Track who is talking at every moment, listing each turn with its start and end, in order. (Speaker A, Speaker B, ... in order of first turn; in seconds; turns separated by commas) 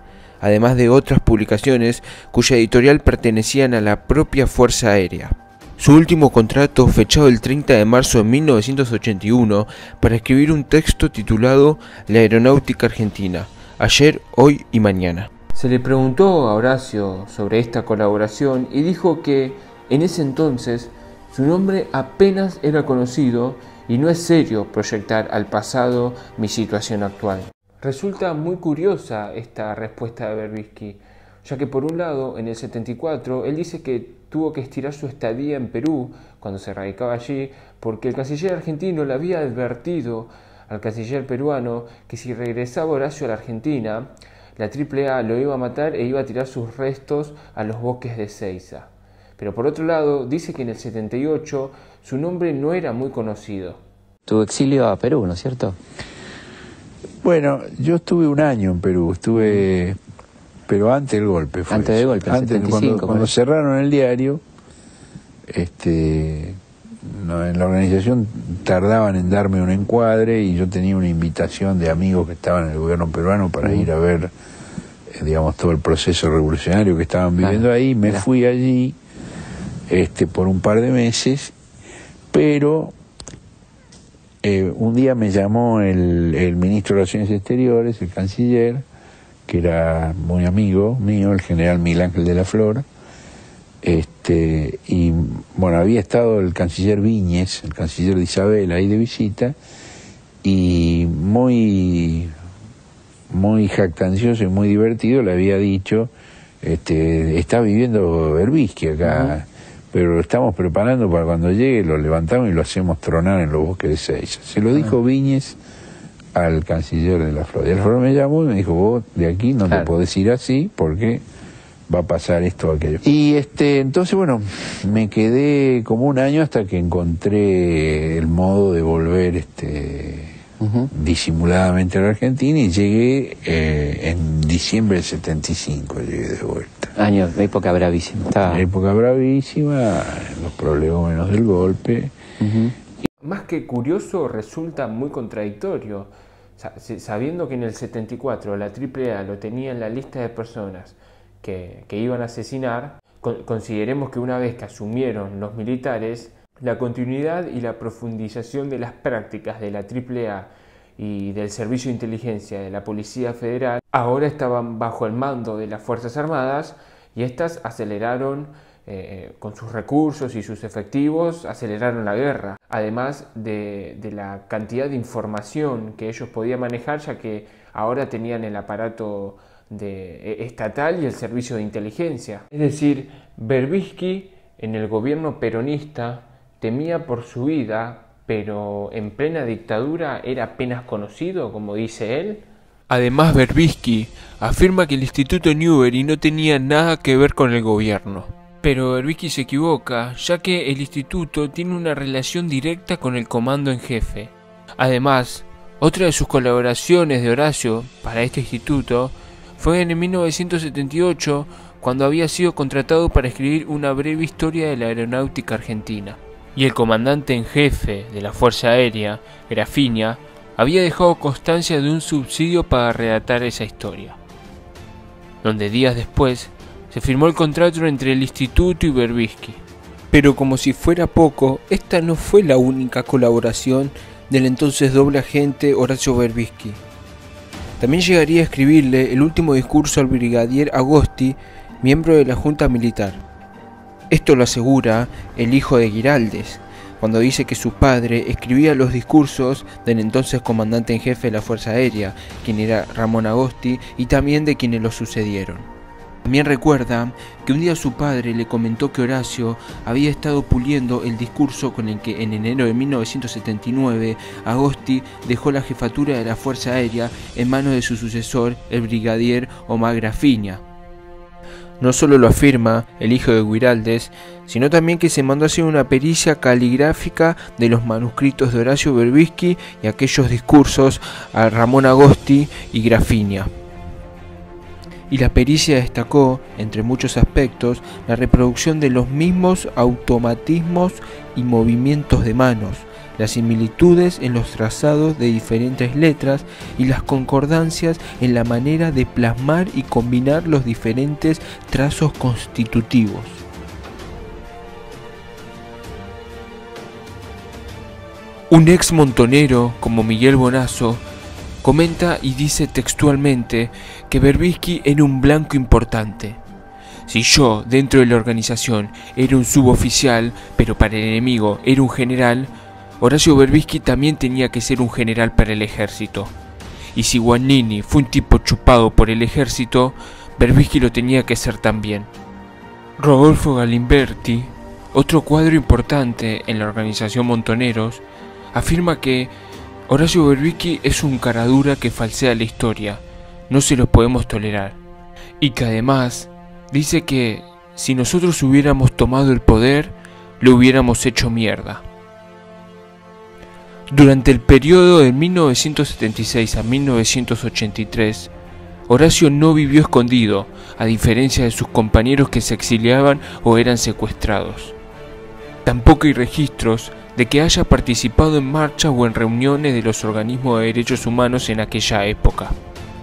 Speaker A: 0.4-53.8, Speaker B: 54.3-55.8, Speaker C: 57.2-60.0, Speaker B: 59.3-59.6, Speaker C: 60.7-64.4, Speaker B: 61.7-63.3, Speaker C: 65.5-74.3, Speaker C: 75.1-79.0, Speaker B: 77.4-78.2, Speaker C: 79.9-81.5, Speaker C: 82.3-82.9, Speaker C: 84.4-88.8, Speaker C: 89.5-92.8, Speaker C: 93.8-99.6, Speaker C: 100.4-102.3, Speaker C: 103.3-106.1, Speaker C: 106.6-115.6, Speaker B: 109.0-109.3, Speaker C: 116.3-121.2, Speaker C: 121.9-130.4, Speaker B: 130.6-130.9, Speaker C: 130.9-136.9, Speaker B: 137.0-138.7, Speaker C: 138.4-142.2, Speaker B: 142.4-142.7, Speaker A: 143.2-224.2, Speaker A: 225.4-236.8, Speaker A: 237.8-243.2, Speaker A: 244.1-255.7, Speaker A: 256.2-270.6, Speaker A: 271.8-283.5, Speaker A: 285.1-303.4, Speaker A: 308.5-311.0, Speaker A: 311.6-316.4, Speaker A: 317.1-326.3, Speaker A: 326.9-332.1, Speaker A: 333.0-339.3, Speaker A: 339.9-344.8, Speaker A: 345.4-351.9, Speaker A: 353.9-358.3, Speaker A: 358.9-364.8, Speaker A: 365.6-372.6